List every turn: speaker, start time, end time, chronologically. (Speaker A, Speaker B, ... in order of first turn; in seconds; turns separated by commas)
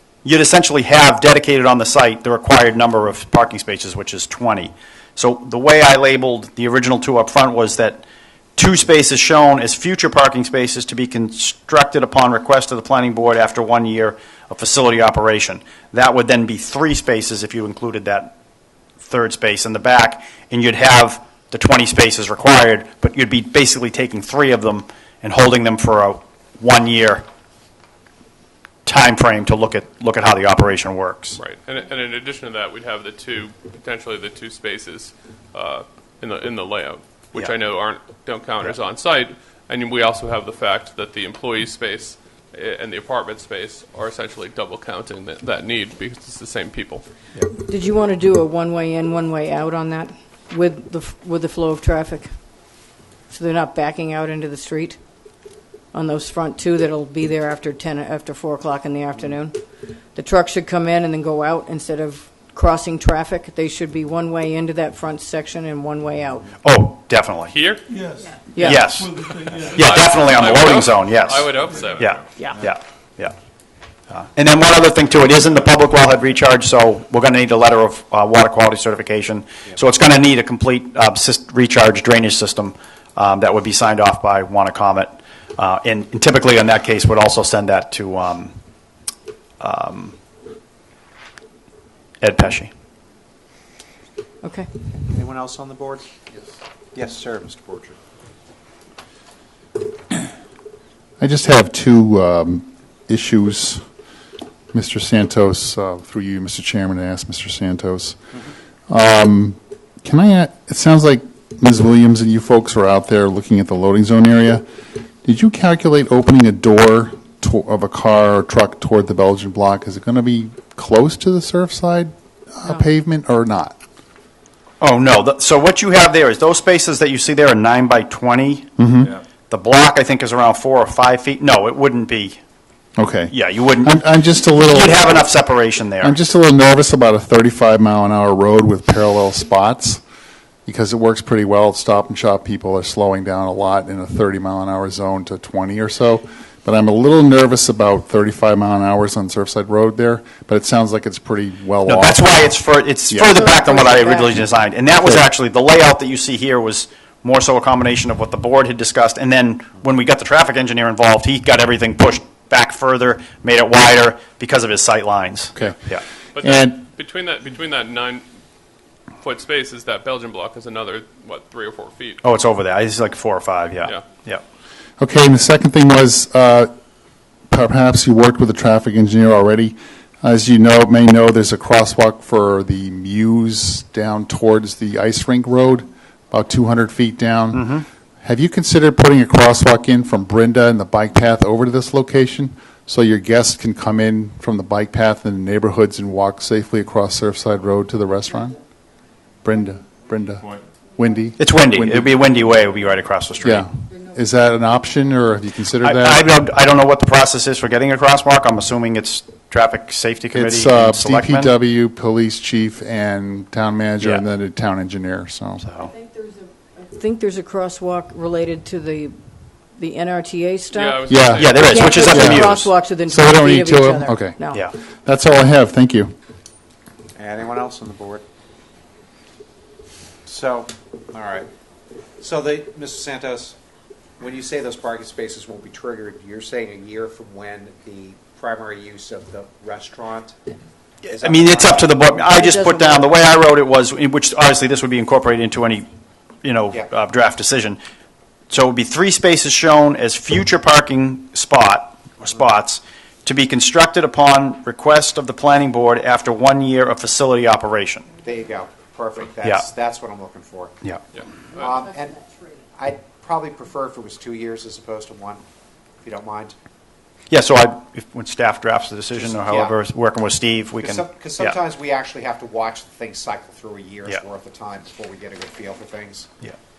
Speaker A: 0.2-8.1, Speaker A: 8.6-18.3, Speaker A: 19.0-27.2, Speaker A: 28.9-31.4, Speaker B: 31.4-47.1, Speaker C: 47.5-52.3, Speaker C: 53.3-55.0, Speaker C: 55.9-59.6, Speaker C: 60.1-66.6, Speaker A: 66.6-67.5, Speaker B: 67.5-67.8, Speaker D: 67.9-70.1, Speaker C: 68.5-68.9, Speaker A: 68.6-69.1, Speaker B: 69.6-72.3, Speaker A: 69.7-73.3, Speaker A: 74.1-88.5, Speaker A: 89.6-90.2, Speaker A: 92.2-92.7, Speaker C: 94.4-94.7, Speaker E: 95.1-96.1, Speaker E: 96.9-98.0, Speaker F: 101.2-103.8, Speaker F: 104.7-108.2, Speaker F: 108.9-114.7, Speaker F: 115.2-123.8, Speaker A: 124.8-128.7, Speaker F: 128.8-129.1, Speaker A: 129.5-132.4, Speaker F: 133.0-135.3, Speaker A: 133.3-134.0, Speaker A: 134.6-136.2, Speaker F: 136.0-140.0, Speaker F: 140.7-152.2, Speaker A: 151.9-166.0, Speaker F: 153.1-153.4, Speaker C: 153.2-154.4, Speaker B: 166.4-168.2, Speaker F: 166.4-166.8, Speaker B: 169.2-172.2, Speaker A: 172.2-174.4, Speaker F: 175.0-176.7, Speaker F: 177.5-198.6, Speaker A: 187.5-187.8, Speaker F: 199.4-202.2, Speaker A: 201.4-203.7, Speaker F: 203.4-206.3, Speaker A: 205.8-211.5, Speaker F: 210.3-215.6, Speaker A: 215.6-215.9, Speaker C: 215.8-219.2, Speaker C: 219.8-224.6, Speaker B: 220.7-222.1, Speaker F: 221.1-224.4, Speaker A: 221.3-222.7, Speaker F: 225.0-226.1, Speaker E: 227.2-228.2, Speaker E: 230.2-231.5, Speaker E: 232.2-233.6, Speaker E: 234.2-240.4, Speaker A: 241.0-245.9, Speaker E: 241.2-242.0, Speaker C: 242.2-243.1, Speaker A: 246.4-247.8, Speaker A: 248.5-258.1, Speaker E: 258.2-260.8, Speaker E: 261.5-265.4, Speaker E: 266.0-266.6, Speaker A: 267.3-271.6, Speaker E: 269.2-269.8, Speaker E: 270.8-276.3